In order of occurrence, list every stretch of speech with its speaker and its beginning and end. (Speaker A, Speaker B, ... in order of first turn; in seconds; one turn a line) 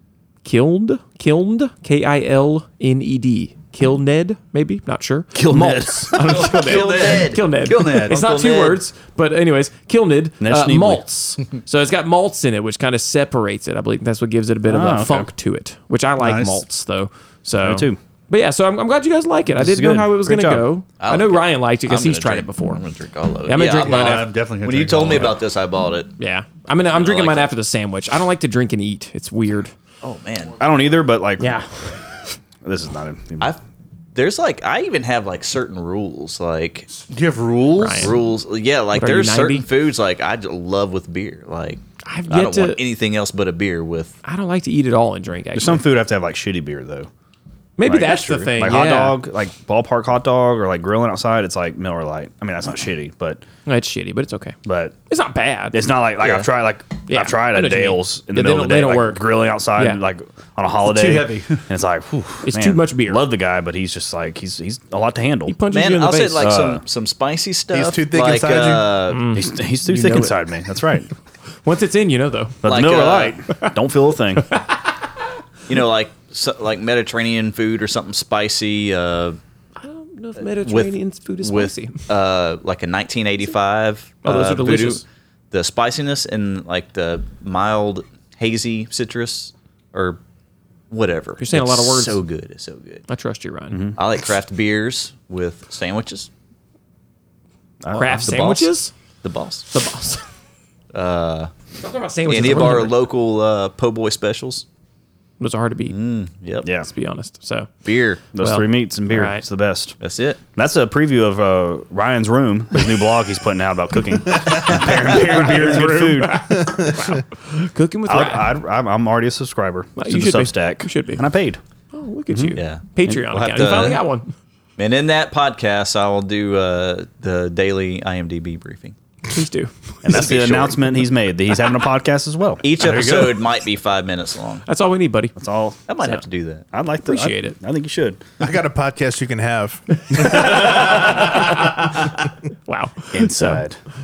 Speaker A: 0.4-22.8
Speaker B: 5.3-6.4
Speaker C: 6.1-8.8
Speaker D: 6.8-8.2
Speaker B: 10.4-11.0
Speaker B: 14.6-15.3
Speaker D: 16.2-16.6
Speaker B: 17.6-18.0
Speaker B: 19.5-20.7
Speaker C: 21.0-26.1
Speaker A: 23.4-24.3
Speaker D: 23.7-25.4
Speaker A: 26.2-29.7
Speaker C: 26.9-27.5
Speaker C: 30.0-30.6
Speaker B: 30.6-31.5
Speaker A: 31.4-31.6
Speaker B: 32.6-33.5
Speaker C: 34.1-36.9
Speaker D: 37.1-38.2
Speaker A: 37.8-38.1
Speaker C: 38.0-44.1
Speaker A: 38.9-39.6
Speaker A: 42.0-42.8
Speaker A: 44.2-45.8
Speaker B: 45.5-47.1
Speaker A: 47.8-49.2
Speaker B: 47.8-53.4
Speaker A: 53.6-54.5
Speaker B: 54.6-54.9
Speaker A: 55.1-55.8
Speaker B: 55.7-65.5
Speaker C: 56.2-56.5
Speaker A: 57.1-60.0
Speaker D: 60.8-61.6
Speaker A: 62.4-63.2
Speaker A: 65.5-66.5
Speaker C: 65.7-69.3
Speaker B: 66.4-66.8
Speaker E: 67.7-69.0
Speaker A: 69.1-70.5
Speaker B: 69.3-71.1
Speaker A: 71.6-72.6
Speaker B: 72.6-74.5
Speaker C: 72.6-73.4
Speaker C: 75.7-79.4
Speaker A: 79.8-82.1
Speaker C: 80.6-90.2
Speaker A: 84.2-85.0
Speaker C: 90.9-93.0
Speaker A: 91.4-92.2
Speaker A: 93.1-93.8
Speaker B: 93.7-94.0
Speaker C: 94.0-96.3
Speaker B: 97.8-98.5
Speaker A: 97.9-98.9
Speaker C: 98.2-98.7
Speaker C: 99.2-99.7
Speaker A: 99.7-100.2
Speaker C: 100.9-101.5
Speaker A: 101.8-103.0
Speaker C: 102.2-104.6
Speaker A: 105.4-105.9
Speaker C: 105.9-106.7
Speaker B: 106.6-106.9
Speaker A: 106.8-107.7
Speaker C: 107.8-108.2
Speaker B: 108.3-110.0
Speaker A: 108.4-109.4
Speaker C: 110.0-110.4
Speaker B: 110.5-116.4
Speaker A: 114.7-118.5
Speaker E: 116.6-117.0
Speaker B: 118.1-121.6
Speaker A: 120.0-121.2
Speaker A: 121.9-124.3
Speaker B: 122.3-122.6
Speaker C: 122.5-124.0
Speaker C: 124.8-128.9
Speaker A: 129.3-129.7
Speaker B: 130.0-132.6
Speaker C: 130.1-130.8
Speaker C: 132.6-134.6
Speaker D: 132.8-133.4
Speaker A: 134.7-135.3
Speaker B: 135.3-135.8
Speaker C: 135.9-136.6
Speaker B: 136.7-138.2
Speaker A: 137.1-137.6
Speaker E: 138.4-141.2
Speaker A: 140.1-141.7
Speaker B: 140.1-141.1
Speaker A: 142.7-143.6
Speaker B: 143.1-143.8